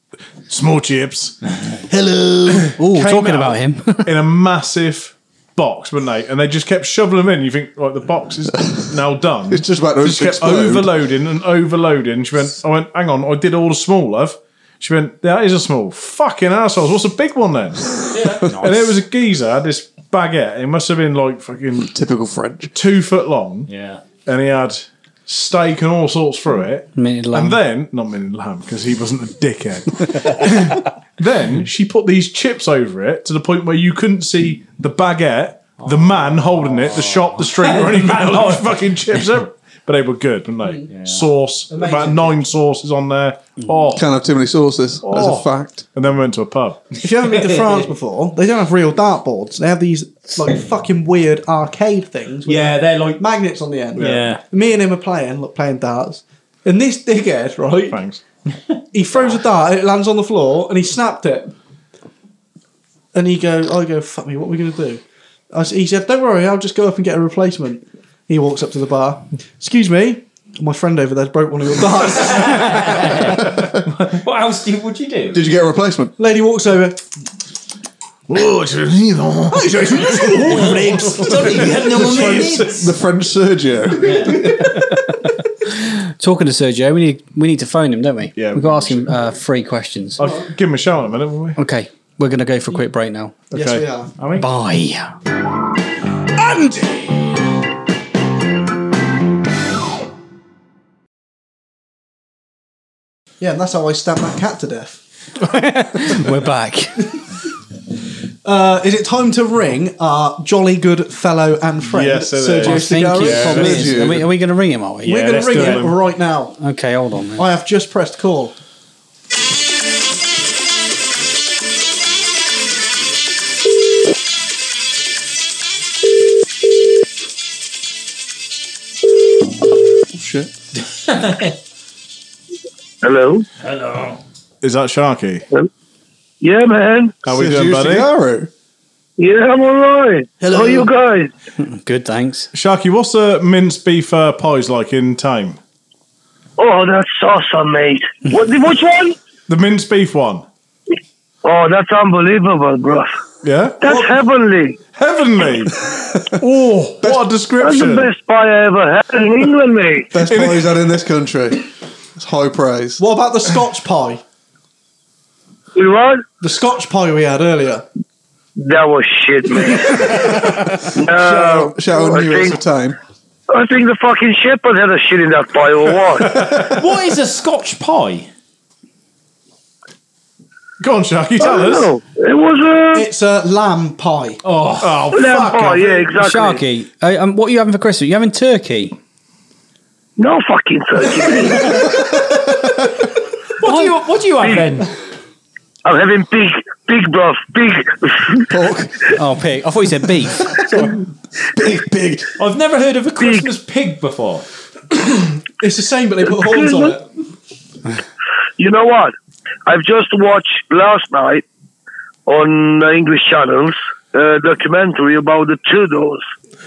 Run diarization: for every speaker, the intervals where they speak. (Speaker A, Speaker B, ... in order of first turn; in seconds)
Speaker A: 0.5-1.4, 2.5-21.9, 22.7-44.0, 45.0-46.8, 54.0-54.3, 57.9-58.2, 78.3-82.6, 88.3-89.1, 90.2-91.6, 93.5-93.8, 111.8-113.9, 115.1-116.0, 134.6-135.4, 137.2-138.1, 142.5-145.6, 149.5-150.4, 153.4-153.8, 154.9-158.1, 160.3-160.7, 176.3-176.8, 180.8-181.9, 184.8-186.1
Speaker B: 2.0-2.7, 41.7-42.4, 47.0-58.0, 58.9-61.5, 63.1-73.4, 76.2-77.0, 79.5-82.1, 90.2-90.5, 93.5-94.1, 96.3-97.2, 103.4-105.0, 108.4-114.0, 115.0-116.5, 117.4-118.5, 140.4-140.9, 163.0-164.2, 166.4-167.8, 182.9-184.4, 204.9-207.0
Speaker C: 2.8-4.1, 26.9-27.6, 84.6-85.2, 85.8-90.2, 91.6-93.3, 94.3-95.1, 105.5-107.1, 112.6-115.7, 116.6-117.5, 141.6-142.5, 186.2-188.9, 199.1-200.6
Speaker D: 9.5-10.9, 21.8-22.7, 43.9-45.8, 75.3-76.1, 81.7-84.4, 112.7-114.3, 130.1-130.5, 137.3-138.5, 160.1-163.0, 171.0-173.0, 191.8-192.8, 198.5-199.0, 200.4-200.9, 201.5-202.3
Speaker E: 18.1-19.0, 23.7-24.0, 35.8-39.2, 40.9-41.2, 47.3-47.9, 52.5-53.2, 54.0-54.4, 59.1-59.4, 72.2-75.4, 80.5-82.9, 84.0-84.3, 94.2-94.5, 115.4-115.8, 131.1-131.5, 133.6-134.2, 176.5-178.3, 184.4-185.0, 193.6-194.9, 202.4-204.4
Speaker F: 133.0-133.5, 136.4-137.2, 139.2-141.3, 146.6-149.2, 151.4-153.1, 153.8-154.8, 157.6-160.1, 165.7-166.2, 168.6-170.3, 170.9-172.6, 173.5-176.4, 181.4-183.1, 185.1-186.6, 190.2-191.8, 194.4-194.7, 195.8-198.4, 203.2-203.5, 206.3-206.9, 208.6-209.1, 209.7-211.4, 212.2-216.2